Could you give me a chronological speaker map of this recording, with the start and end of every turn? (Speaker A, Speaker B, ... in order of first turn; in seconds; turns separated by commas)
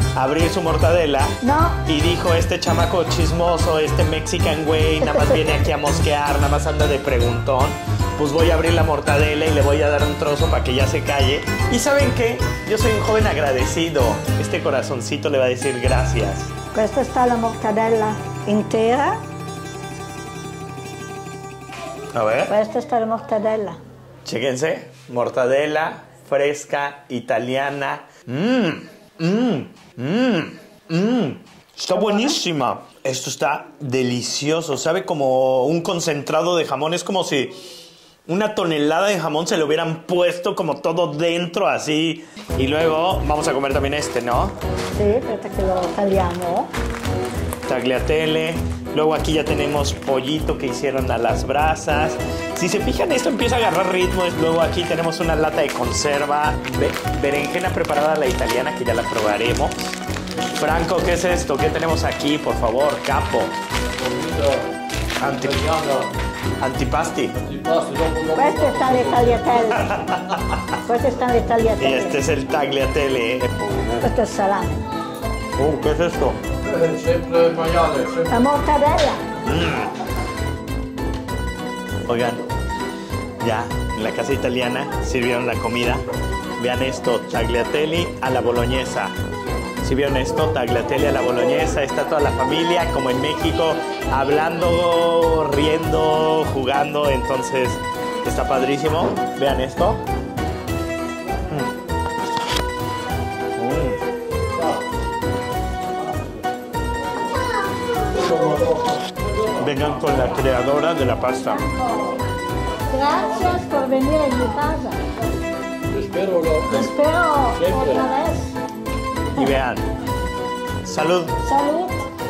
Speaker A: 0.1-16.5, Speaker B: 1.4-1.8, Speaker B: 16.7-19.2, Speaker A: 22.1-22.5, Speaker B: 22.5-23.8, Speaker A: 24.2-37.6, Speaker B: 32.0-32.3, Speaker A: 38.3-44.6, Speaker B: 45.0-46.7, Speaker A: 47.7-63.5, Speaker C: 64.0-64.7, Speaker A: 65.2-65.6, Speaker C: 65.3-66.1, Speaker A: 66.6-67.4, Speaker C: 67.4-69.7, Speaker B: 68.3-70.0, Speaker A: 69.8-70.6, Speaker B: 70.8-72.2, Speaker A: 71.8-74.1, Speaker B: 74.0-74.8, Speaker A: 75.6-76.4, Speaker C: 76.7-78.3, Speaker B: 78.3-79.2, Speaker A: 79.4-79.9, Speaker A: 82.1-82.5, Speaker A: 83.4-86.0, Speaker A: 86.6-89.2, Speaker A: 89.8-100.0, Speaker A: 103.6-104.0, Speaker C: 108.3-108.9, Speaker A: 109.6-111.7, Speaker B: 111.7-112.2, Speaker B: 112.9-115.0, Speaker C: 115.9-116.9, Speaker B: 116.7-118.5, Speaker C: 117.6-118.1, Speaker A: 119.3-119.9, Speaker A: 120.8-121.4, Speaker B: 121.4-122.0